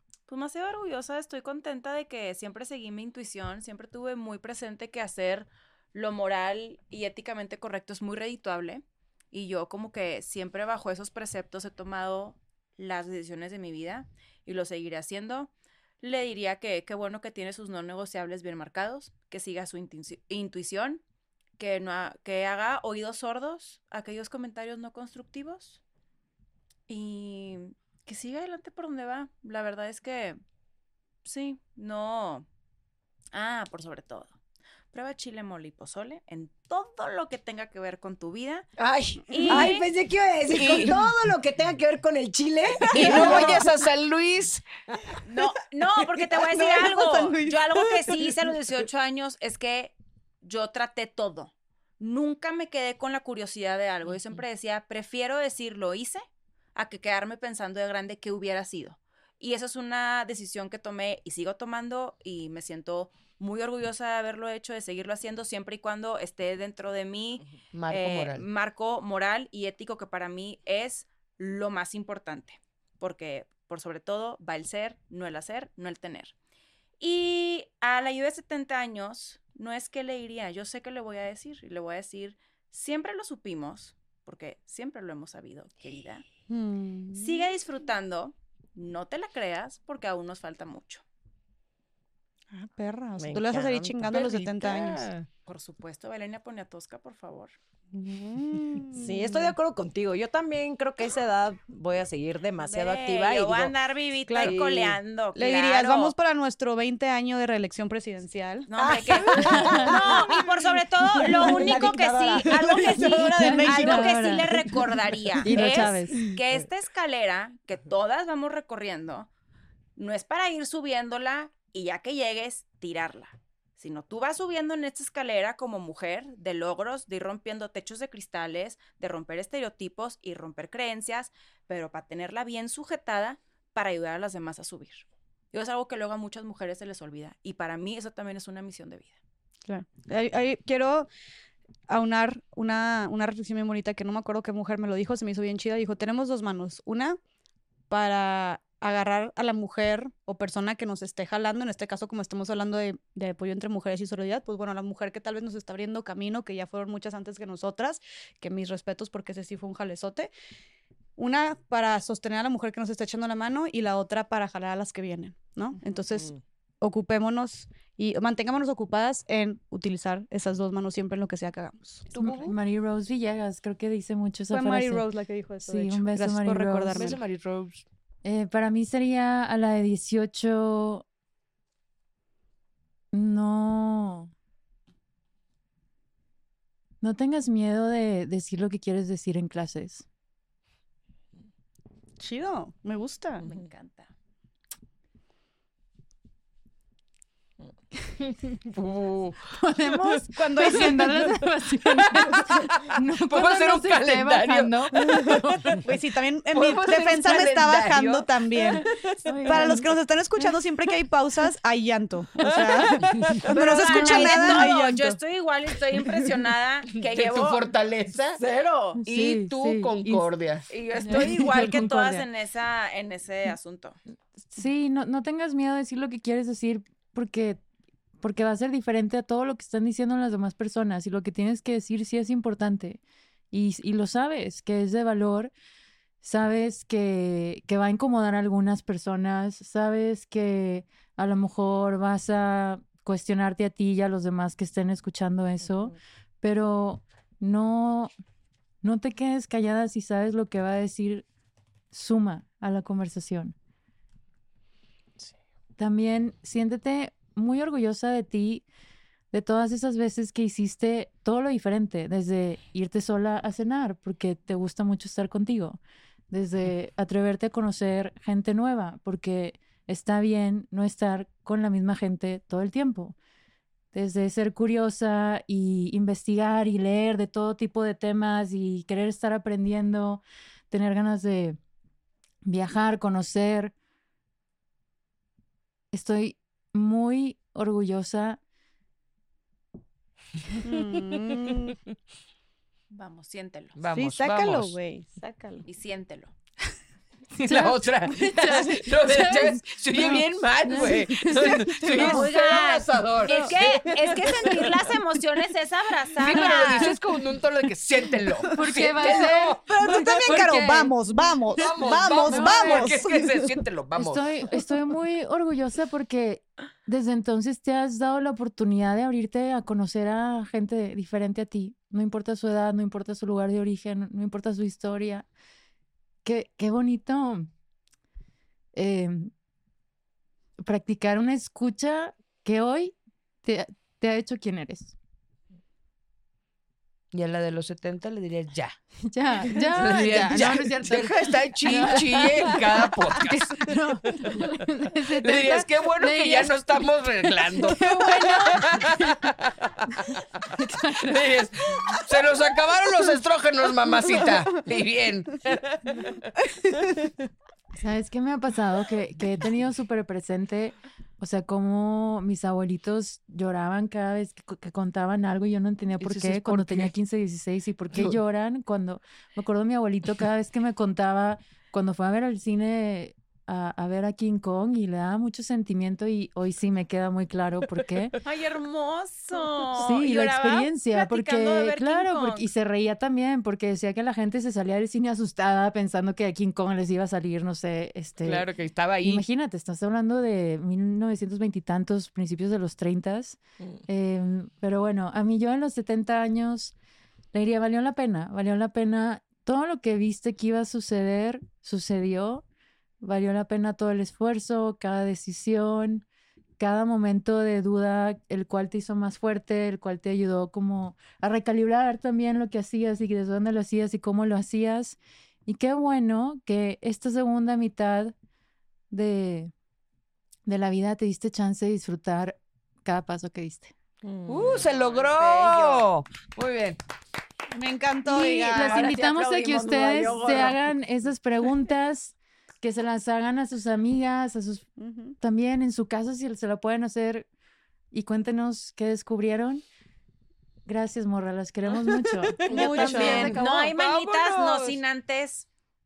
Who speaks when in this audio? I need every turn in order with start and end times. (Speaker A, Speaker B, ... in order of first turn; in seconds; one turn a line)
Speaker A: 0.3-15.5
Speaker A: 16.0-21.0
Speaker A: 21.6-25.8
Speaker A: 26.9-30.4
Speaker A: 31.2-32.5
Speaker A: 33.3-34.4
Speaker A: 34.9-38.7
Speaker B: 38.8-43.6
Speaker A: 39.3-39.9
Speaker C: 39.4-39.7
Speaker D: 40.5-41.0
Speaker D: 42.9-44.6
Speaker A: 43.0-43.6
Speaker C: 43.0-43.3
Speaker A: 45.2-56.2
Speaker B: 46.2-46.9
Speaker C: 46.6-48.0
Speaker A: 56.8-76.3
Speaker D: 67.7-68.5
Speaker A: 77.0-86.2
Speaker C: 86.5-87.5
Speaker A: 87.2-91.0
Speaker C: 92.5-95.1
Speaker B: 93.2-95.2
Speaker D: 94.1-94.5
Speaker A: 95.5-97.5
Speaker C: 98.0-99.5
Speaker B: 98.9-103.7
Speaker A: 102.6-106.1
Speaker C: 104.3-104.6
Speaker B: 104.4-105.0
Speaker C: 105.3-114.4
Speaker A: 108.7-119.3
Speaker B: 108.8-110.3
Speaker E: 109.5-109.9
Speaker B: 111.2-113.3
Speaker E: 113.2-114.5
Speaker E: 115.4-116.2
Speaker A: 120.0-139.2
Speaker C: 139.7-141.1
Speaker C: 141.9-147.2
Speaker C: 147.9-160.3
Speaker C: 161.2-172.1
Speaker D: 172.1-172.6
Speaker E: 172.2-175.1
Speaker C: 174.5-177.2
Speaker E: 175.7-177.2
Speaker D: 176.9-177.8
Speaker E: 178.2-181.1
Speaker E: 183.1-184.3
Speaker E: 187.0-190.1
Speaker C: 192.2-193.5
Speaker A: 193.4-194.1
Speaker D: 198.2-200.2
Speaker E: 199.6-205.7
Speaker C: 200.4-201.1
Speaker D: 200.9-201.3
Speaker D: 202.0-205.4
Speaker C: 205.8-208.9
Speaker D: 206.5-208.3
Speaker D: 208.8-209.4
Speaker E: 209.3-209.8
Speaker C: 209.5-215.2
Speaker D: 213.0-213.4
Speaker B: 213.3-214.2
Speaker A: 213.6-217.7
Speaker E: 214.2-214.5
Speaker D: 217.1-218.4
Speaker B: 218.4-219.0
Speaker E: 219.0-220.3
Speaker D: 219.0-221.3
Speaker A: 220.7-224.0
Speaker E: 221.0-222.3
Speaker E: 224.6-227.6
Speaker E: 228.2-233.0
Speaker E: 233.5-235.5
Speaker E: 236.2-248.1
Speaker E: 248.8-251.3
Speaker E: 251.9-253.6
Speaker E: 255.8-258.6
Speaker E: 259.3-265.8
Speaker E: 266.3-273.1
Speaker E: 273.9-281.6
Speaker E: 282.4-283.7
Speaker E: 285.9-288.4
Speaker C: 290.6-291.8
Speaker A: 292.9-293.8
Speaker D: 293.8-294.8
Speaker C: 293.9-295.6
Speaker A: 295.7-296.3
Speaker E: 297.3-302.2
Speaker D: 297.4-304.8
Speaker C: 301.3-302.2
Speaker A: 302.0-306.9
Speaker C: 303.2-303.6
Speaker D: 306.2-309.7
Speaker E: 308.5-310.9
Speaker C: 309.0-313.6
Speaker D: 310.3-310.5
Speaker D: 311.6-314.3
Speaker E: 312.3-313.0
Speaker E: 313.9-325.3
Speaker E: 326.2-327.5
Speaker E: 328.7-329.3
Speaker E: 330.6-334.9
Speaker D: 337.1-338.8
Speaker E: 339.1-346.8
Speaker D: 339.5-344.5
Speaker D: 345.2-350.2
Speaker E: 347.6-349.3
Speaker E: 350.5-351.1
Speaker D: 350.9-356.3
Speaker E: 357.8-378.2
Speaker D: 366.0-366.9
Speaker D: 367.9-368.2
Speaker A: 378.2-382.5
Speaker E: 379.8-388.5
Speaker D: 388.2-389.2
Speaker E: 389.0-396.7
Speaker E: 397.3-402.4
Speaker E: 403.0-406.1
Speaker E: 406.6-418.1
Speaker E: 418.9-419.5
Speaker E: 420.5-423.7
Speaker B: 424.0-424.7
Speaker D: 424.3-426.8
Speaker A: 424.6-425.9
Speaker C: 427.5-430.6
Speaker E: 428.1-434.7
Speaker D: 428.7-428.9
Speaker C: 434.8-435.2
Speaker E: 435.2-437.3
Speaker E: 437.9-439.6
Speaker E: 440.7-443.7
Speaker C: 442.4-443.4
Speaker D: 442.4-444.8
Speaker A: 442.5-445.5